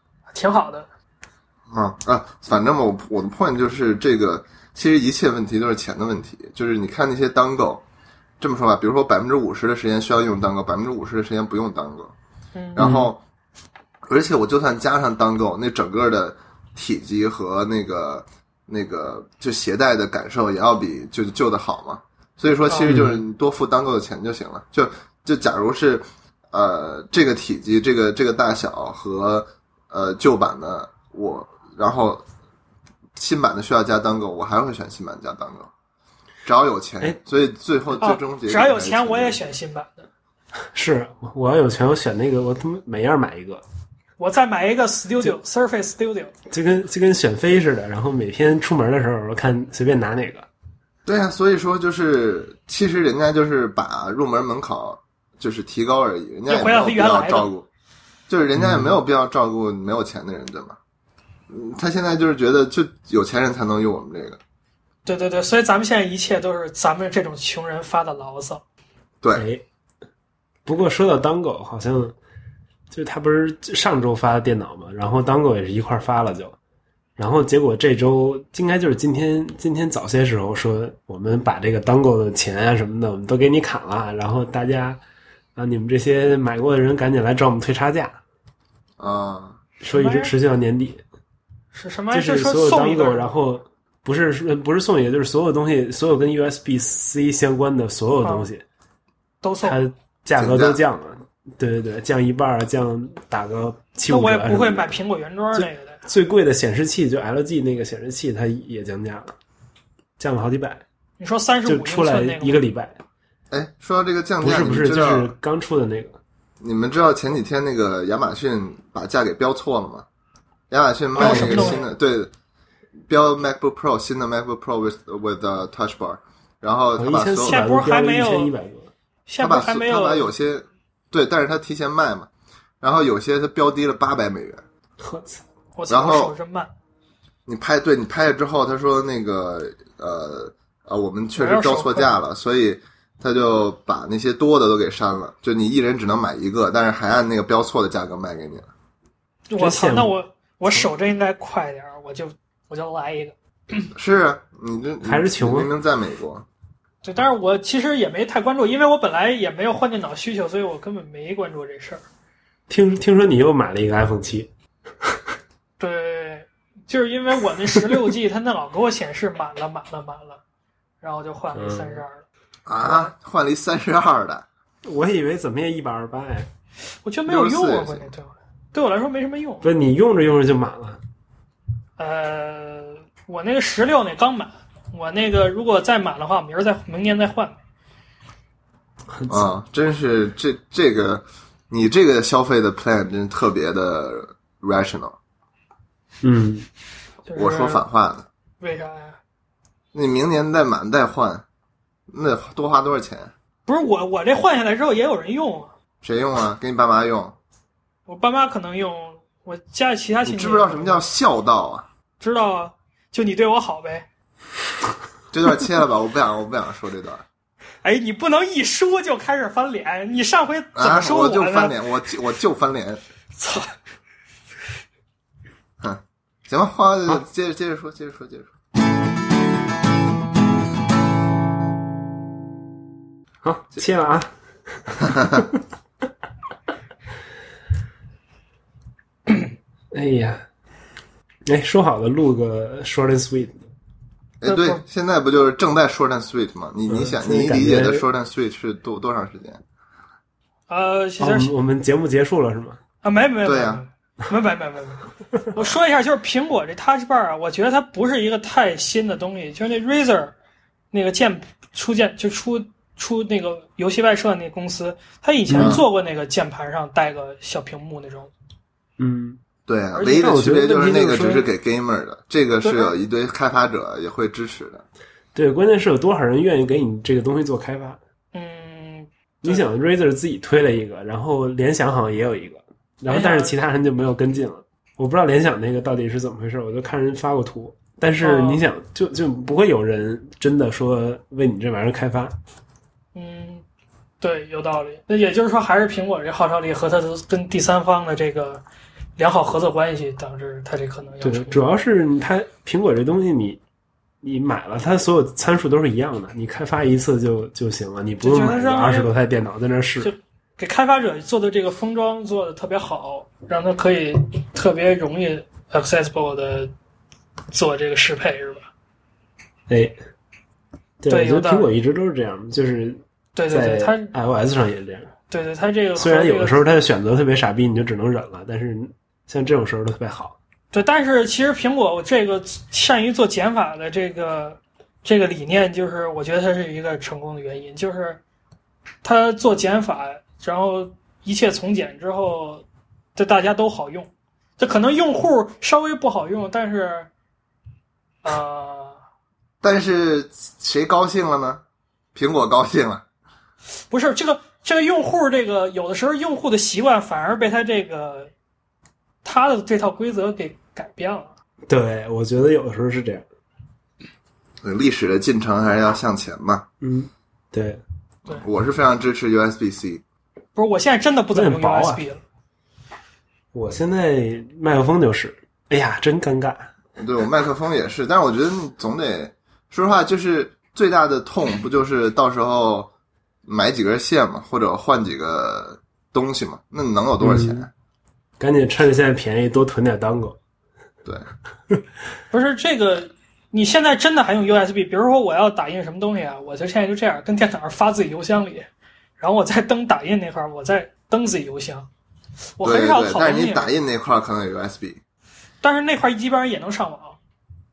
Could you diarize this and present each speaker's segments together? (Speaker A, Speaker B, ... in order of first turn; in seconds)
Speaker A: 0.3-0.9, 12.6-12.9, 22.7-23.0, 38.0-40.1, 44.2-46.3, 56.5-57.5, 65.1-68.6, 89.9-90.3, 91.7-93.4, 98.2-98.5, 99.4-99.8, 104.1-106.0, 111.2-112.6, 121.2-121.9, 127.5-128.5, 129.3-130.3, 135.8-136.7, 141.4-142.2, 149.5-153.9, 157.0-162.0, 165.8-170.4, 171.0-172.2, 172.8-173.1, 177.1-179.7, 182.0-187.6, 197.2-197.8, 198.6-199.2, 203.7-205.7, 208.1-211.0, 212.2-214.1, 217.8-221.8, 223.4-223.8, 244.4-244.8, 250.7-251.5, 253.0-260.3, 260.9-268.3, 270.0-270.2, 272.6-272.9, 278.3-279.7, 283.1-283.6, 288.2-288.6, 293.1-293.6, 294.2-298.6, 299.2-301.6, 308.2-309.1, 310.0-316.7, 317.5-318.7, 321.1-321.7, 323.4-324.1, 325.3-326.7, 330.7-338.2, 339.0-342.6, 343.2-347.1, 348.2-349.0, 353.9-358.3, 359.2-361.3, 370.6-372.2, 392.3-398.7, 399.2-401.9, 402.6-403.7, 405.6-407.2
Speaker B: 1.7-7.8, 8.4-12.1, 12.8-13.2, 14.1-32.2, 33.2-35.7, 36.5-39.4, 51.1-57.7, 58.3-60.8, 61.5-64.4, 89.0-89.6, 100.4-100.8, 113.5-115.3, 116.6-120.1, 120.7-122.3, 123.1-127.6, 129.4-132.3, 132.8-134.6, 135.9-136.3, 137.5-148.7, 153.9-156.4, 172.7-174.5, 177.3-178.1, 189.3-195.2, 197.4-198.3, 199.9-201.4, 202.1-203.3, 206.0-207.4, 210.2-211.9, 215.3-217.2, 220.8-223.0, 225.8-228.5, 244.4-249.6, 253.4-253.8, 265.6-265.8, 269.7-274.8, 349.6-351.6, 352.1-353.0, 364.6-366.7, 368.3-370.0, 377.0-382.9, 383.5-387.7, 402.6-405.0
Speaker C: 12.8-13.1, 22.8-23.2, 40.7-43.6, 46.5-50.5, 58.6-58.9, 69.4-69.6, 70.7-72.2, 72.9-76.6, 77.2-85.0, 85.6-88.2, 89.8-91.0, 92.1-98.7, 99.6-105.0, 105.5-109.3, 110.2-110.8, 111.7-113.0, 114.4-116.2, 121.2-121.8, 127.0-128.9, 135.0-135.4, 149.6-150.2, 155.1-155.7, 162.7-164.5, 165.0-165.3, 171.6-172.0, 174.8-176.5, 179.6-181.0, 189.2-189.4, 196.2-196.7, 233.4-235.6, 239.9-240.4, 241.5-243.7, 246.9-248.0, 251.2-252.8, 265.5-265.9, 269.0-269.4, 270.1-271.5, 275.3-278.0, 279.4-292.4, 301.2-303.6, 304.2-310.1, 319.7-320.0, 321.0-325.1, 326.0-330.4, 361.7-363.3, 366.8-367.8, 371.3-372.0, 373.5-376.7, 387.2-387.7, 388.4-390.4